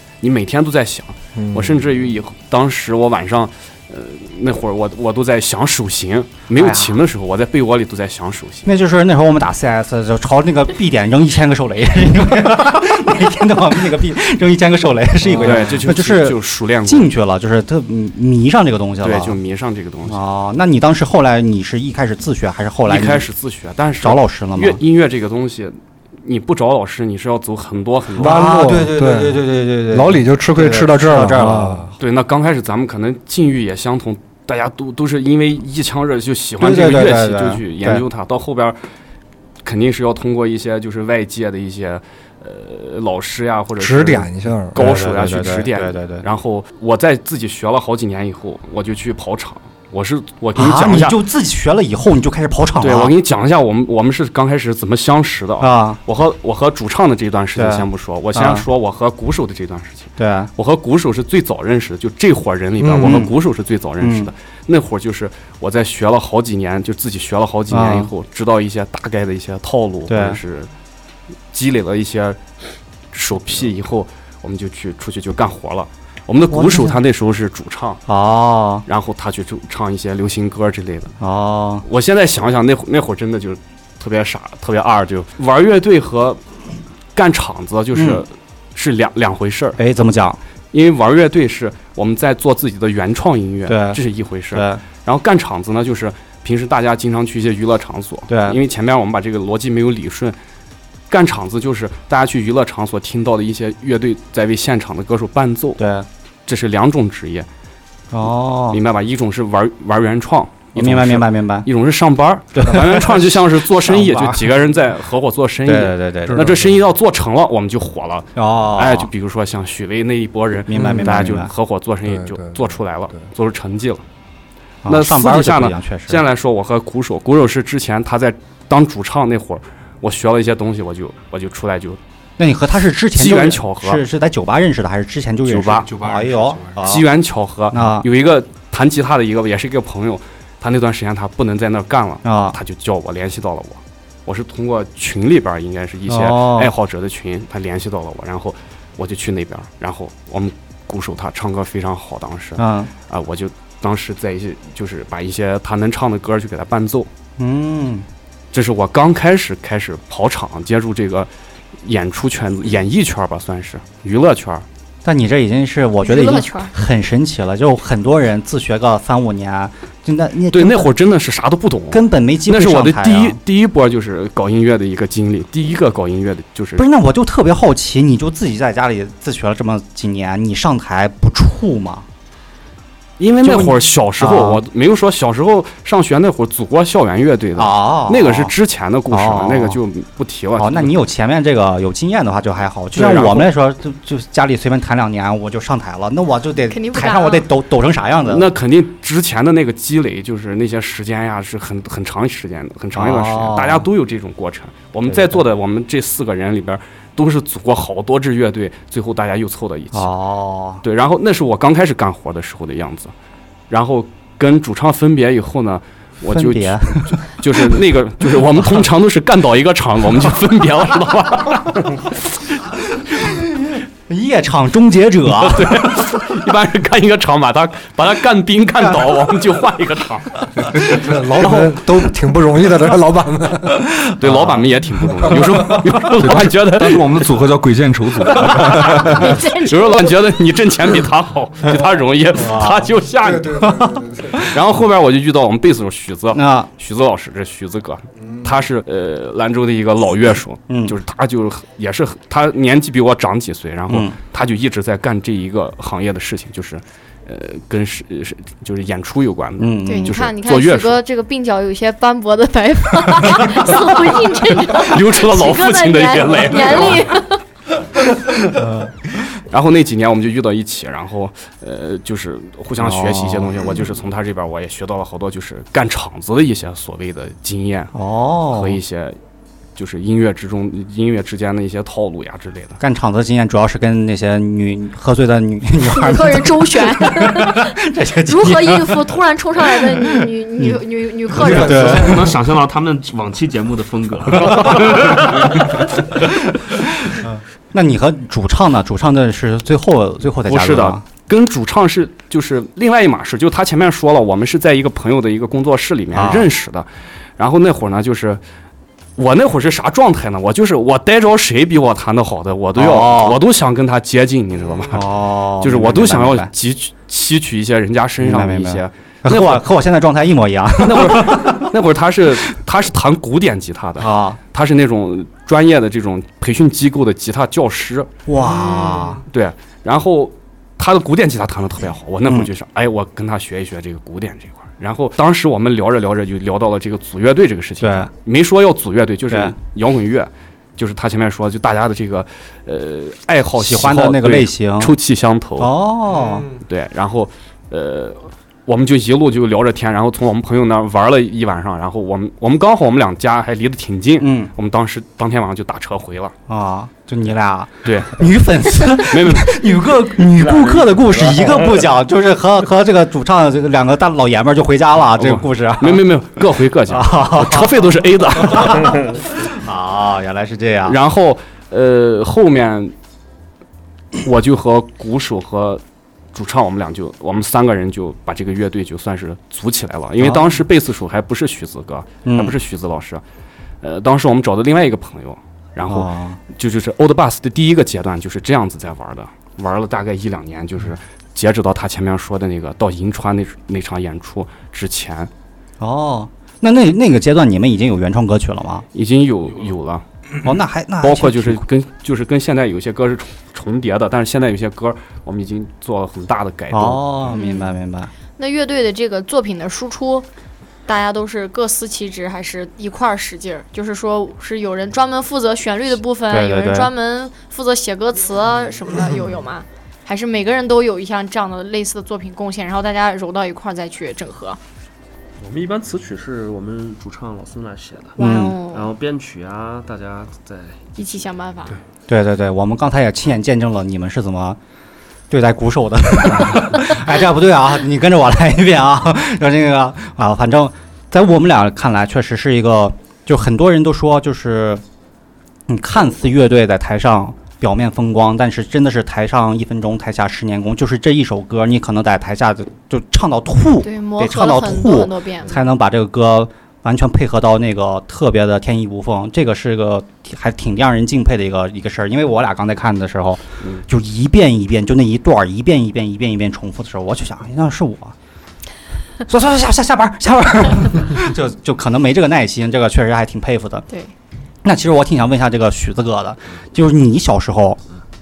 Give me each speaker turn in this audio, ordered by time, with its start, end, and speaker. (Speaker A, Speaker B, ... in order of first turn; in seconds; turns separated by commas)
Speaker A: 0.2-8.7, Speaker B: 1.4-1.8, Speaker C: 6.5-6.9, Speaker C: 8.6-19.4, Speaker A: 15.2-17.1, Speaker A: 19.0-20.2, Speaker C: 20.0-23.3, Speaker A: 22.9-28.5, Speaker C: 24.0-24.8, Speaker B: 28.1-31.9, Speaker C: 28.2-31.9, Speaker A: 32.0-38.8, Speaker C: 36.6-38.0, Speaker A: 39.6-51.2, Speaker B: 43.8-44.8, Speaker C: 44.7-46.2, Speaker C: 50.5-53.1, Speaker A: 52.8-70.7, Speaker C: 55.6-56.0, Speaker C: 57.5-58.6, Speaker C: 60.2-60.5, Speaker B: 62.8-63.1, Speaker C: 62.9-63.3, Speaker C: 64.0-64.3, Speaker C: 67.7-68.1, Speaker C: 70.1-70.4, Speaker A: 71.5-72.4, Speaker A: 73.1-78.0, Speaker C: 76.5-77.0, Speaker C: 78.1-78.8, Speaker A: 78.8-81.1, Speaker C: 81.2-81.8, Speaker A: 81.8-86.4, Speaker A: 87.1-89.8, Speaker C: 87.9-88.2, Speaker C: 89.8-90.4, Speaker A: 90.7-100.3, Speaker C: 93.7-94.0, Speaker C: 94.5-94.8, Speaker C: 98.3-98.6, Speaker A: 101.1-105.8, Speaker C: 105.8-106.1, Speaker A: 106.5-107.5, Speaker C: 108.1-108.8, Speaker A: 108.7-124.0, Speaker C: 110.8-111.7, Speaker C: 112.5-114.5, Speaker C: 115.7-116.5, Speaker B: 116.3-116.8, Speaker C: 118.3-119.1, Speaker C: 120.7-121.5, Speaker B: 120.8-121.1, Speaker B: 122.0-122.8, Speaker C: 124.8-126.2, Speaker A: 124.8-132.0, Speaker C: 132.4-137.0, Speaker A: 133.1-134.0, Speaker A: 135.4-135.9, Speaker D: 135.8-136.9, Speaker A: 136.8-157.1, Speaker C: 137.7-138.1, Speaker C: 142.2-142.6, Speaker C: 146.1-146.7, Speaker C: 152.6-152.9, Speaker C: 157.4-158.1, Speaker A: 158.5-161.3, Speaker A: 161.8-164.6, Speaker C: 165.0-170.9, Speaker E: 166.0-166.7, Speaker A: 170.5-176.8, Speaker C: 171.9-173.4, Speaker C: 176.8-182.1, Speaker A: 183.2-190.9, Speaker C: 183.4-184.6, Speaker C: 187.6-188.5, Speaker C: 189.1-189.8, Speaker C: 190.6-198.4, Speaker A: 192.9-193.5, Speaker E: 196.7-197.4, Speaker A: 198.2-210.1, Speaker C: 202.9-203.8, Speaker C: 205.1-205.4, Speaker C: 209.9-210.8, Speaker A: 210.8-213.1, Speaker A: 213.7-222.4, Speaker C: 216.3-217.2, Speaker C: 223.2-226.1, Speaker A: 225.4-232.0, Speaker B: 230.7-233.8, Speaker A: 234.0-237.3, Speaker C: 234.2-234.6, Speaker B: 235.3-235.8, Speaker D: 236.2-239.3, Speaker A: 238.2-243.8, Speaker E: 239.0-240.2, Speaker C: 242.3-242.9, Speaker B: 243.2-244.6, Speaker C: 243.6-243.9, Speaker A: 244.3-261.0, Speaker C: 246.3-246.7, Speaker C: 250.7-250.9, Speaker C: 253.9-254.2, Speaker C: 259.6-260.2, Speaker E: 259.8-267.4, Speaker A: 264.7-267.1, Speaker C: 268.5-268.9, Speaker A: 269.5-277.9, Speaker C: 272.8-273.9, Speaker C: 277.9-278.8, Speaker A: 278.5-279.2, Speaker A: 279.8-282.8, Speaker C: 282.8-290.8, Speaker E: 285.8-291.9, Speaker C: 291.3-292.4, Speaker B: 291.3-292.3, Speaker F: 291.6-296.0, Speaker C: 297.0-301.0, Speaker A: 300.4-306.9, Speaker C: 306.1-306.5, Speaker A: 307.4-308.4, Speaker A: 309.2-319.7, Speaker C: 312.8-313.4, Speaker C: 314.9-316.5, Speaker C: 318.2-321.6, Speaker A: 320.8-328.1, Speaker C: 324.0-324.4, Speaker C: 328.3-329.2, Speaker E: 328.5-328.9, Speaker A: 329.3-345.7, Speaker C: 337.8-338.1, Speaker C: 339.3-339.5, Speaker C: 343.6-344.9, Speaker C: 345.6-346.5, Speaker B: 346.1-346.6, Speaker A: 346.6-356.3, Speaker C: 354.2-354.5, Speaker C: 356.5-366.0, Speaker A: 357.8-358.3, Speaker A: 358.8-359.9, Speaker F: 360.3-361.6, Speaker A: 365.1-369.0, Speaker C: 366.9-367.7, Speaker C: 368.4-371.0, Speaker A: 370.8-372.9, Speaker A: 374.2-375.8, Speaker A: 376.3-383.2, Speaker C: 380.2-380.6, Speaker C: 382.2-382.5, Speaker A: 383.8-395.3, Speaker C: 385.9-386.4, Speaker C: 395.8-398.8, Speaker A: 398.9-400.0, Speaker C: 400.4-401.6, Speaker A: 401.0-407.4, Speaker C: 406.7-408.1, Speaker E: 407.3-407.7, Speaker E: 408.4-410.2, Speaker E: 410.9-424.6, Speaker C: 416.3-416.9, Speaker F: 425.4-431.2, Speaker C: 428.2-428.6, Speaker E: 428.2-428.9, Speaker E: 430.9-431.8, Speaker C: 432.1-434.6, Speaker C: 435.3-444.8, Speaker C: 445.7-468.1, Speaker E: 453.8-455.6, Speaker C: 469.3-473.9, Speaker C: 474.6-477.8